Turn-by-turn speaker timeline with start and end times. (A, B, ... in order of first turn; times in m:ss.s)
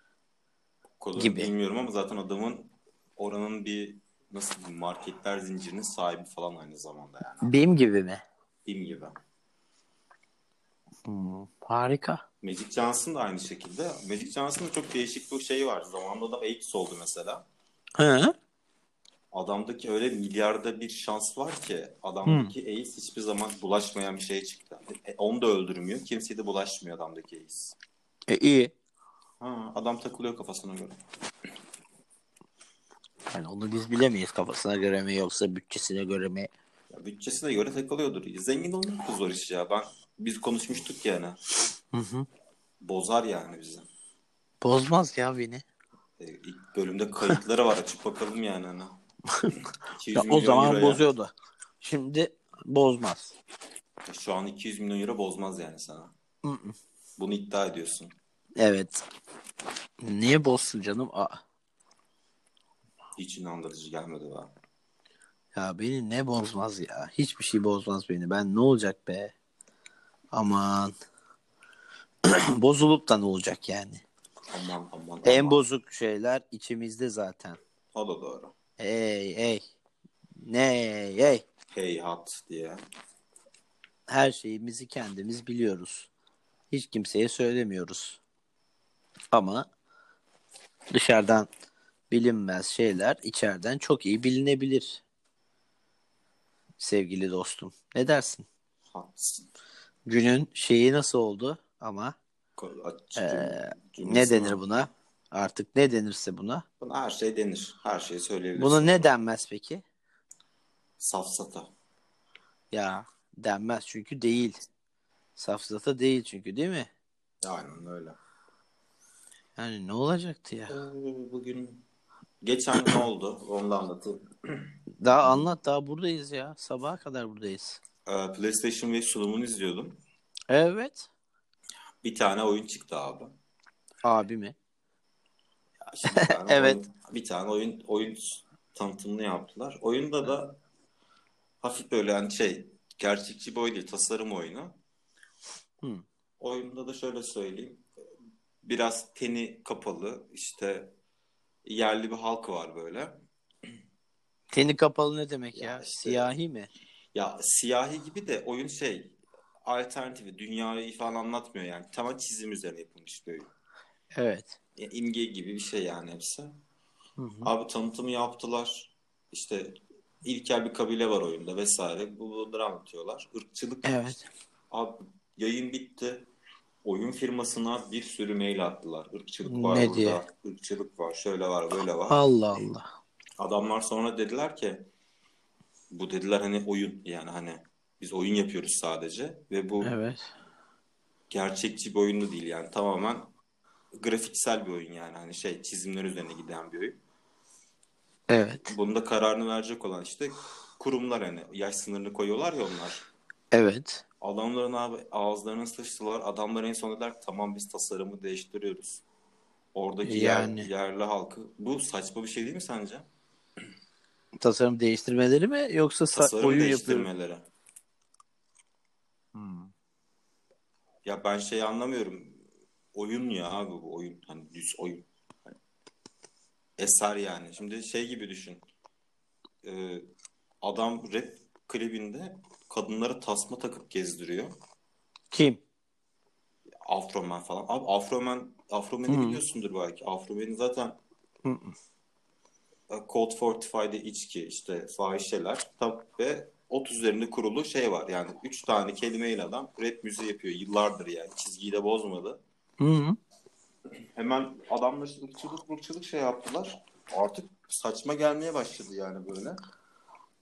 0:01.0-0:07.5 A
0:01.2-0:01.5 B
0:07.4-0:08.2 B
0:08.6-0:09.2 A
0:11.0-0:12.2 B
0:12.4-0:17.4 A
0:18.0-0:18.3 B
0:19.3-0:27.8 A
0:22.2-0:22.5 B
0:28.3-0:28.7 B
0:29.4-0:31.0 A
0:33.3-0:36.5 B
0:36.9-0:41.4 A
0:41.9-0:42.3 B
0:42.8-0:43.9 A
0:44.6-0:45.6 B
0:46.2-0:49.0 A
0:49.9-0:51.0 A
0:50.1-0:53.3 B
0:54.1-0:56.1 A
0:56.4-0:56.8 B
0:57.2-0:58.1 A
0:58.6-0:59.0 B
1:00.0-1:01.4 B
1:03.2-1:04.5 A
1:05.5-1:09.3 B
1:10.3-1:10.9 B
1:12.2-1:14.0 B
1:14.5-1:15.6 A
1:15.2-1:17.6 B
1:17.9-1:18.5 A
1:18.8-1:19.6 B
1:20.4-1:21.4 B
1:21.7-1:22.8 A
1:24.1-1:26.1 B
1:26.7-1:28.2 B
1:29.3-1:29.7 B
1:30.9-1:31.5 B
1:32.1-1:35.0 B
1:36.8-1:38.4 B
1:38.9-1:39.5 A
1:40.1-1:42.2 B
1:42.6-1:44.6 A
1:43.2-1:46.6 B
1:46.8-1:49.1 A
1:48.6-1:49.8 B
1:51.0-1:51.7 A
1:52.7-1:54.6 B
1:55.4-1:56.9 B
1:57.4-1:58.2 A
1:59.6-2:00.8 B
2:00.7-2:01.8 A
2:02.4-2:04.7 A
2:05.0-2:07.8 B
2:08.0-2:10.0 A
2:10.5-2:11.1 B
2:12.0-2:13.3 A
2:14.0-2:14.5 B
2:15.8-2:20.6 A
2:16.1-2:16.8 B
2:21.6-2:24.8 A
2:26.4-2:27.8 A
2:28.6-2:30.9 A
2:31.6-2:33.2 A
2:34.5-2:36.7 B
2:35.5-2:36.3 A
2:37.1-2:43.5 A
2:44.1-2:44.6 B
2:44.8-2:46.6 A
2:47.2-2:47.5 B
2:47.4-2:54.2 A
2:53.8-2:54.3 B
2:54.7-2:56.3 A
2:56.8-3:02.2 A
2:59.4-3:00.2 B
3:02.1-3:02.8 B
3:03.4-3:04.9 A
3:05.9-3:09.9 A
3:09.8-3:10.3 B
3:11.3-3:13.3 A
3:13.9-3:17.0 A
3:18.3-3:18.7 B
3:18.7-3:23.0 A
3:23.5-3:24.0 B
3:24.2-3:29.0 A
3:29.7-3:33.1 A
3:30.0-3:30.7 B
3:34.4-3:37.1 B
3:36.1-3:37.5 A
3:39.3-3:39.7 B
3:41.0-3:42.4 A
3:42.9-3:45.5 A
3:46.8-3:48.6 A
3:49.6-3:50.1 A
3:50.6-3:54.6 A
3:55.3-3:55.6 B
3:56.8-4:01.0 A
3:59.1-3:59.4 B
4:01.4-4:01.7 B
4:02.9-4:12.4 A
4:12.8-4:13.2 B
4:14.1-4:19.6 A